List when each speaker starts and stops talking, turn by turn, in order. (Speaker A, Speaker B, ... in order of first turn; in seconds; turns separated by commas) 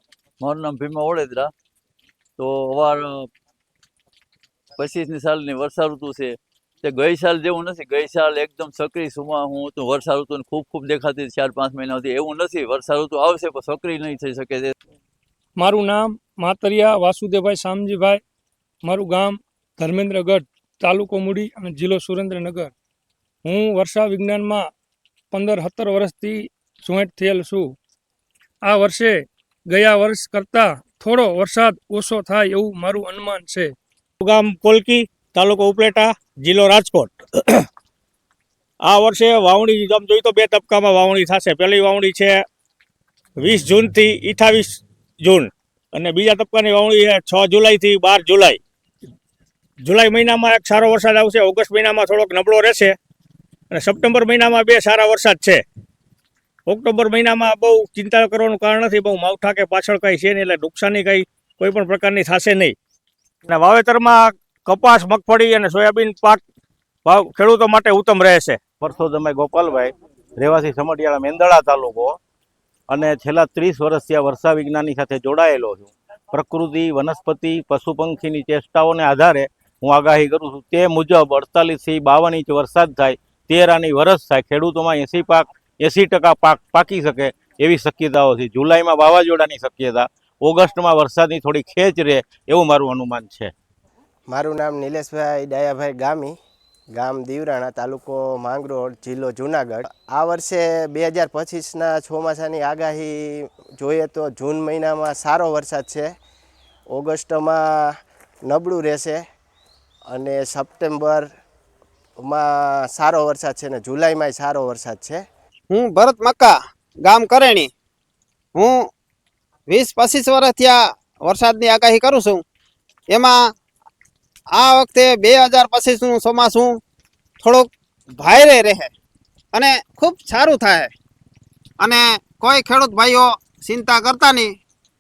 Speaker A: 0.4-1.5, Speaker A: 2.4-3.3, Speaker A: 4.8-14.7, Speaker B: 15.6-18.2, Speaker B: 18.8-22.7, Speaker B: 23.4-24.7, Speaker B: 25.3-27.7, Speaker B: 28.6-33.7, Speaker C: 34.2-37.7, Speaker C: 38.8-42.4, Speaker C: 43.4-48.6, Speaker C: 49.8-52.9, Speaker C: 53.7-55.6, Speaker C: 56.7-62.7, Speaker C: 63.5-66.4, Speaker C: 67.0-68.6, Speaker D: 68.8-72.2, Speaker D: 72.9-93.5, Speaker E: 94.3-96.3, Speaker E: 96.9-106.1, Speaker E: 106.9-107.9, Speaker E: 108.4-109.2, Speaker E: 110.1-111.3, Speaker E: 112.2-115.2, Speaker F: 115.7-117.7, Speaker F: 118.5-118.8, Speaker F: 119.7-122.4, Speaker F: 123.1-123.5, Speaker F: 124.5-126.8, Speaker F: 127.4-128.9, Speaker F: 129.5-130.9, Speaker F: 131.8-134.5